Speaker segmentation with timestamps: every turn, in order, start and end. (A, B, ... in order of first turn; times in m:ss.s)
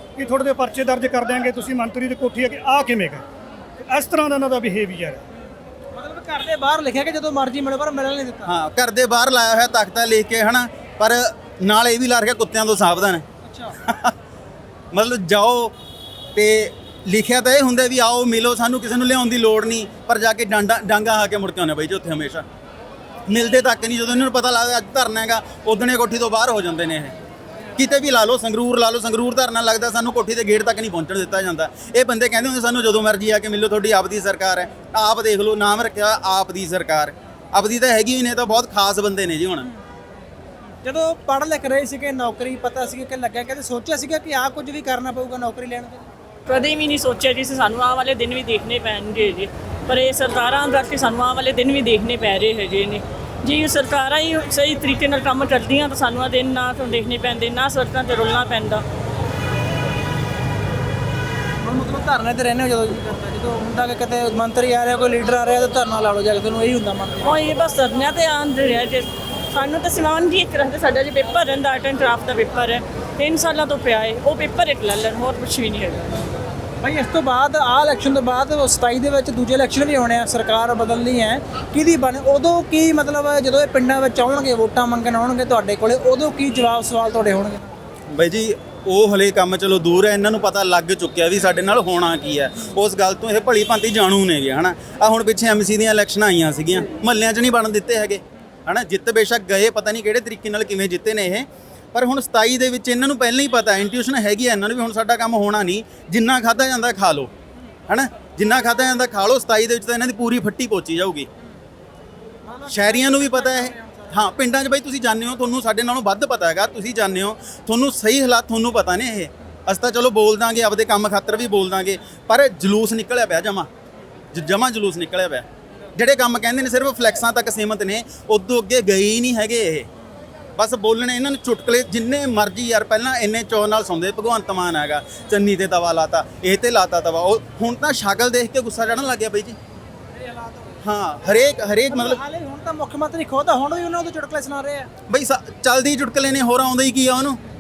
0:00.2-0:03.2 A
0:03.8-0:05.2 A
0:05.9-0:08.5 B
0:08.4-0:13.2 C
0:13.4-0:13.8 B
0:13.8-0:14.1 C
0:14.9-0:15.7 C
0:16.4-0:22.4 C
0:23.3-0:27.2 C
0:27.8-0:39.7 C
0:40.8-0:46.1 B
0:46.5-0:58.8 D
1:01.6-1:07.3 B
1:07.2-1:16.2 D
1:16.8-1:27.7 B
1:28.1-1:47.3 C
1:47.9-1:51.3 C
1:52.5-1:54.2 B
1:52.7-2:03.7 C
2:04.3-2:09.9 C
2:10.6-2:19.6 C
2:20.2-2:20.8 B
2:20.8-2:22.2 C
2:21.9-2:24.9 B
2:25.1-2:27.4 C